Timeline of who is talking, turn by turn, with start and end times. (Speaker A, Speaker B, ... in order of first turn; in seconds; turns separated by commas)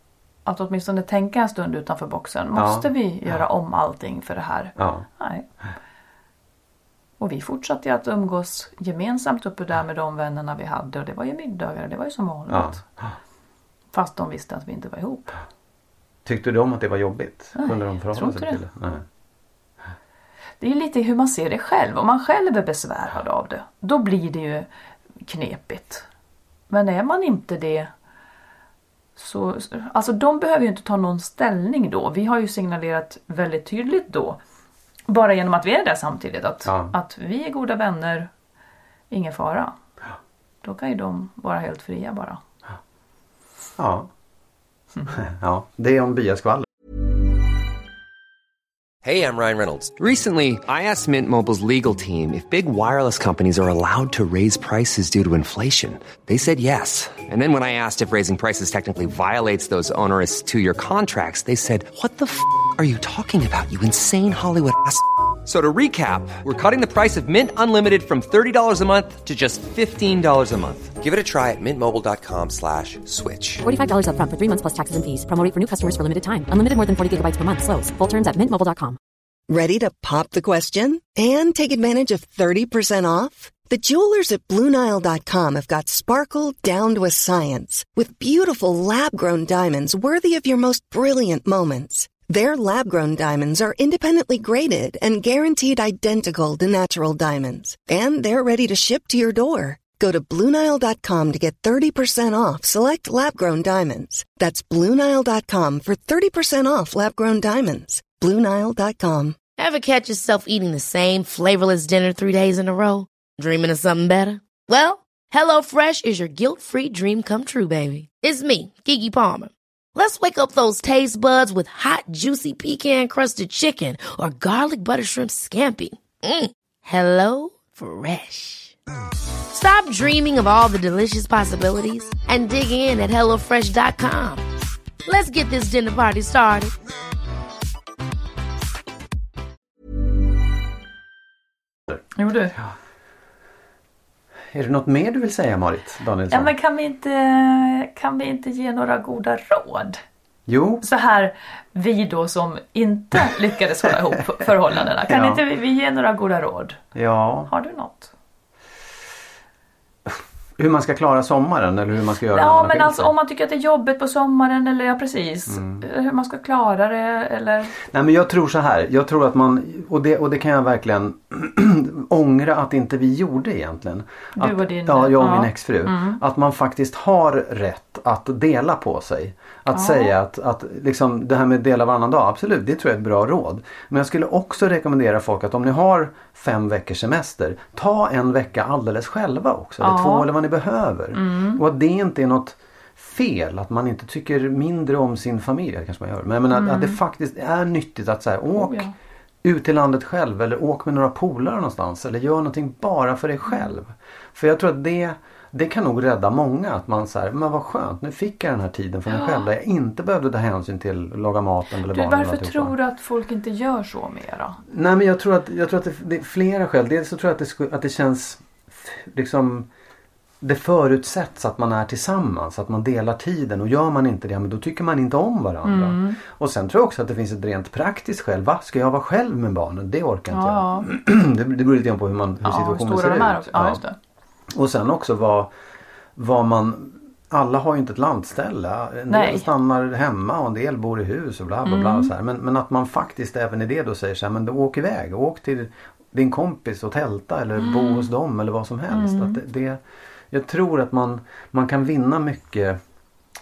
Speaker A: 0.5-5.5, Speaker B: 2.5-2.9, Speaker B: 4.8-5.1, Speaker A: 7.2-12.8, Speaker B: 12.5-13.1, Speaker A: 13.9-15.4, Speaker B: 16.2-19.1, Speaker A: 17.6-18.6, Speaker A: 20.6-24.7, Speaker A: 25.3-26.1, Speaker A: 26.7-27.9, Speaker A: 29.2-34.4, Speaker A: 35.1-38.3, Speaker B: 36.6-36.9, Speaker A: 39.1-39.8, Speaker A: 40.6-42.4, Speaker B: 43.8-44.1, Speaker B: 45.1-46.7, Speaker C: 49.0-73.6, Speaker D: 73.6-79.0, Speaker E: 79.5-109.4, Speaker F: 109.6-128.8, Speaker F: 129.5-134.4, Speaker F: 135.1-136.7, Speaker A: 142.2-142.5, Speaker B: 144.5-146.5, Speaker A: 146.3-150.0, Speaker B: 150.5-150.8, Speaker A: 150.8-156.8, Speaker B: 155.0-155.4, Speaker B: 156.9-157.5, Speaker A: 157.5-158.1, Speaker B: 160.1-163.1, Speaker A: 162.3-167.7, Speaker B: 165.5-165.8, Speaker B: 167.8-198.9, Speaker A: 174.4-176.2, Speaker A: 179.7-180.1, Speaker A: 189.8-190.3, Speaker A: 191.1-191.6, Speaker A: 196.5-197.0, Speaker A: 198.6-198.9, Speaker B: 199.4-212.8, Speaker A: 209.1-209.4, Speaker A: 211.9-214.6, Speaker B: 214.7-219.7, Speaker B: 220.4-233.8, Speaker A: 225.6-226.2, Speaker A: 230.3-230.9, Speaker A: 232.4-234.0, Speaker B: 234.5-235.5, Speaker B: 236.2-249.8, Speaker A: 239.1-239.5, Speaker A: 241.7-242.1, Speaker A: 247.6-248.1, Speaker A: 248.9-249.4, Speaker B: 250.3-252.8